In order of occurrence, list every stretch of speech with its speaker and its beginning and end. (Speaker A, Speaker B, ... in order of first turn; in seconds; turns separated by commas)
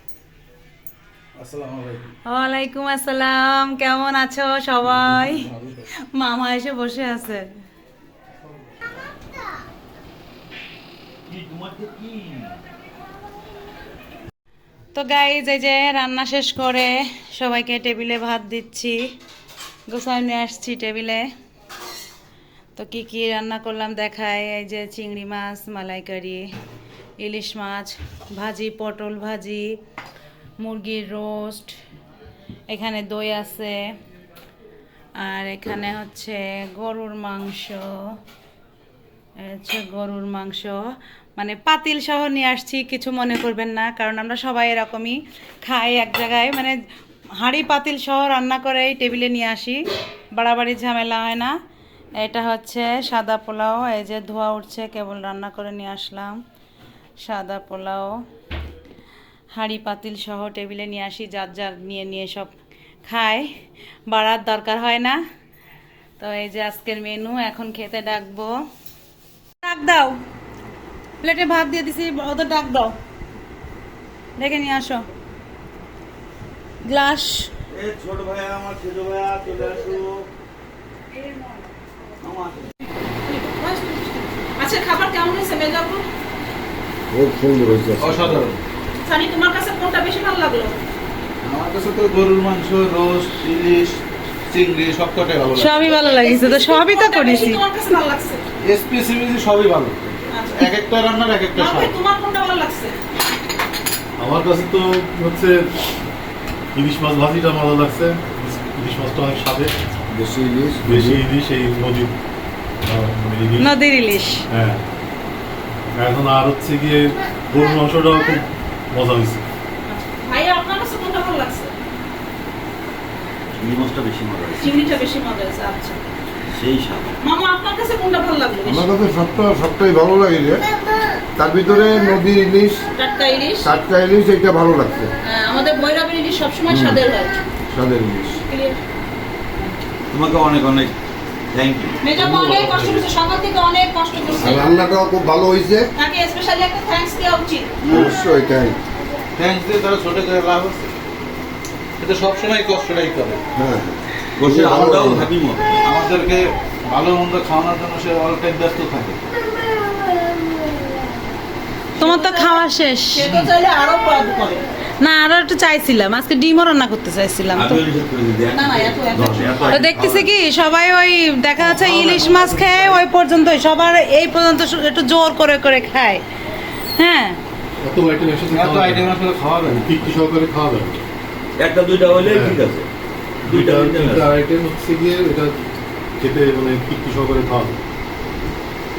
Speaker A: 1.4-2.0, Speaker B: 2.3-5.5, Speaker A: 5.3-5.8, Speaker B: 6.1-7.5, Speaker C: 11.3-12.6, Speaker B: 14.9-19.0, Speaker B: 19.9-21.3, Speaker B: 22.8-26.5, Speaker B: 27.2-29.7, Speaker B: 30.6-31.8, Speaker B: 32.7-33.8, Speaker B: 35.2-38.0, Speaker B: 39.4-40.8, Speaker B: 41.4-46.8, Speaker B: 47.4-49.8, Speaker B: 50.3-51.5, Speaker B: 52.2-56.4, Speaker B: 57.2-58.2, Speaker B: 59.5-62.5, Speaker B: 63.1-63.5, Speaker B: 64.1-65.2, Speaker B: 66.2-68.6, Speaker B: 69.6-70.2, Speaker B: 71.2-73.0, Speaker B: 74.4-75.0, Speaker B: 76.8-77.5, Speaker C: 77.7-80.3, Speaker B: 81.2-81.7, Speaker C: 82.2-82.7, Speaker D: 83.2-86.0, Speaker C: 87.1-88.4, Speaker A: 88.0-88.6, Speaker D: 89.0-90.8, Speaker A: 91.4-95.8, Speaker B: 95.5-97.6, Speaker D: 95.9-98.4, Speaker A: 98.6-101.9, Speaker D: 100.3-100.7, Speaker D: 101.5-103.0, Speaker E: 104.2-105.7, Speaker E: 106.7-109.7, Speaker C: 110.1-111.1, Speaker E: 110.8-112.2, Speaker E: 112.8-113.7, Speaker B: 113.6-114.4, Speaker E: 114.5-114.8, Speaker E: 115.9-119.4, Speaker D: 119.9-121.7, Speaker C: 123.5-124.8, Speaker D: 124.6-126.0, Speaker C: 126.5-127.1, Speaker D: 127.2-128.9, Speaker F: 128.7-130.6, Speaker F: 131.4-132.8, Speaker D: 132.9-133.7, Speaker F: 133.6-135.1, Speaker D: 135.2-137.4, Speaker F: 136.7-136.9, Speaker F: 137.7-138.4, Speaker D: 138.5-138.8, Speaker C: 140.1-140.9, Speaker C: 141.5-142.0, Speaker D: 142.0-144.8, Speaker E: 142.2-143.0, Speaker F: 144.5-145.9, Speaker D: 145.9-147.8, Speaker A: 147.8-148.2, Speaker F: 148.0-148.8, Speaker A: 149.4-150.9, Speaker A: 152.0-153.4, Speaker F: 153.6-155.3, Speaker C: 154.3-155.8, Speaker A: 155.8-159.2, Speaker B: 162.0-163.3, Speaker D: 162.0-162.5, Speaker D: 163.1-164.6, Speaker B: 165.0-167.8, Speaker C: 167.5-170.3, Speaker D: 168.5-169.8, Speaker B: 169.7-176.2, Speaker A: 171.6-173.0, Speaker B: 177.0-177.4, Speaker E: 177.8-179.1, Speaker A: 178.5-180.0, Speaker E: 179.7-181.0, Speaker C: 181.6-182.9, Speaker E: 182.2-182.6, Speaker C: 183.4-184.3, Speaker E: 183.4-185.6, Speaker E: 186.2-187.8